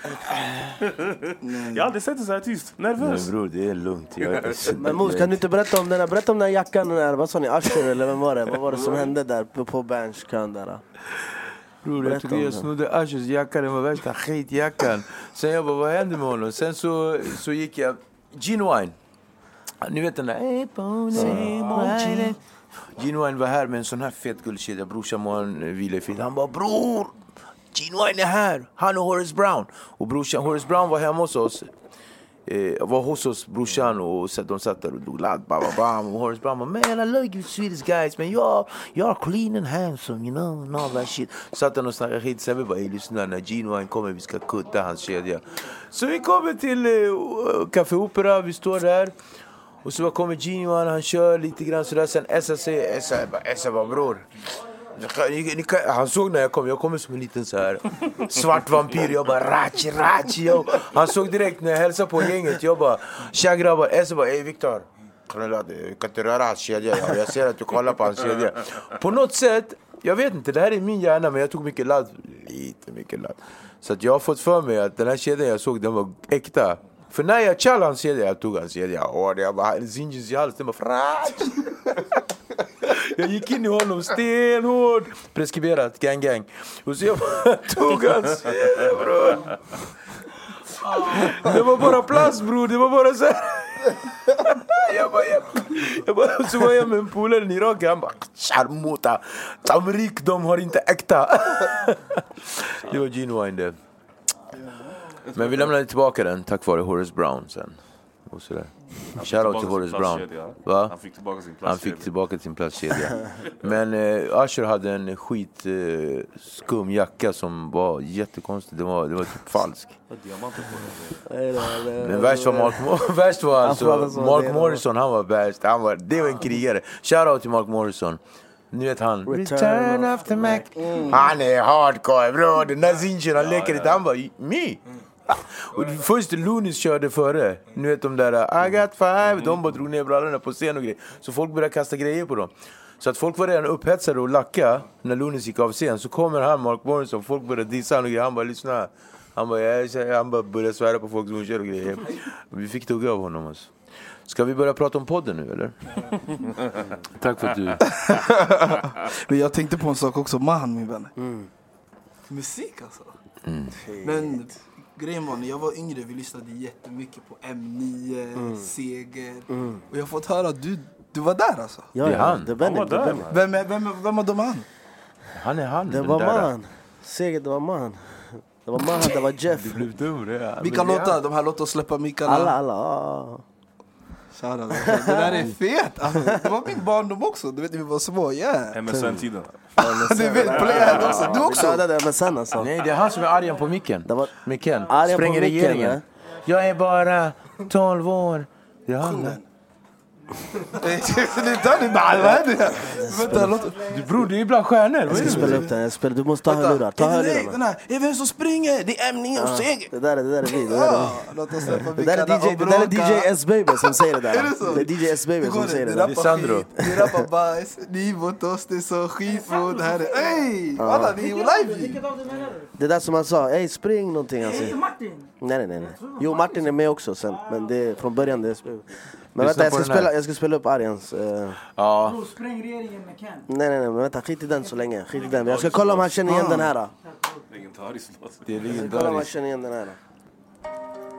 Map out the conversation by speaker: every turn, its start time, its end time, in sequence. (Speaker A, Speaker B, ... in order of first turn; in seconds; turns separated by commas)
Speaker A: 0.3-3.3, Speaker B: 1.4-1.9, Speaker C: 3.0-5.4, Speaker A: 4.2-4.7, Speaker D: 4.8-10.8, Speaker C: 11.8-18.9, Speaker D: 12.0-12.7, Speaker C: 19.8-27.2, Speaker D: 21.1-22.3, Speaker C: 27.7-31.7, Speaker C: 32.5-49.1, Speaker C: 49.8-54.3, Speaker C: 54.9-82.2, Speaker C: 82.8-89.8, Speaker C: 90.5-103.8, Speaker A: 105.3-105.7, Speaker C: 105.3-111.0, Speaker A: 109.2-112.1, Speaker C: 111.6-120.0, Speaker A: 120.1-121.2, Speaker D: 121.2-122.9, Speaker C: 122.0-128.2, Speaker D: 123.6-124.8, Speaker C: 128.7-153.7, Speaker D: 129.3-131.1, Speaker C: 154.2-156.1, Speaker C: 157.2-157.8, Speaker B: 157.9-161.1, Speaker D: 161.2-161.5, Speaker B: 162.3-163.1, Speaker C: 163.4-163.7, Speaker D: 163.8-164.5, Speaker B: 164.0-171.9, Speaker D: 168.3-168.7, Speaker D: 169.5-169.8, Speaker D: 171.9-173.3, Speaker C: 172.0-172.5, Speaker A: 172.6-173.4, Speaker B: 173.3-174.7, Speaker C: 175.3-176.5, Speaker D: 175.9-179.8, Speaker C: 179.4-181.2, Speaker B: 180.6-182.6, Speaker D: 182.2-183.4, Speaker B: 184.3-188.8, Speaker D: 184.8-185.5, Speaker A: 188.7-189.6, Speaker D: 189.8-192.7, Speaker B: 189.8-191.8, Speaker A: 190.4-191.6, Speaker C: 192.6-199.4, Speaker D: 194.1-194.3, Speaker D: 194.9-196.0, Speaker B: 199.0-199.4, Speaker B: 200.7-204.1, Speaker D: 202.1-203.4, Speaker C: 203.3-205.7, Speaker B: 205.1-205.8, Speaker D: 205.1-207.6, Speaker B: 206.4-213.3, Speaker D: 209.3-216.2, Speaker B: 213.8-222.0, Speaker C: 216.0-216.7, Speaker D: 216.8-217.2, Speaker E: 219.3-220.2, Speaker D: 220.8-221.2, Speaker E: 221.1-222.7, Speaker D: 222.8-224.8, Speaker E: 224.4-228.1, Speaker D: 225.4-231.6, Speaker C: 229.4-230.1, Speaker C: 231.7-232.2, Speaker E: 232.0-233.4, Speaker D: 233.5-236.9, Speaker A: 235.1-236.1, Speaker B: 236.3-236.7, Speaker E: 237.0-237.4, Speaker A: 237.5-238.7, Speaker C: 238.4-239.3, Speaker D: 238.7-240.0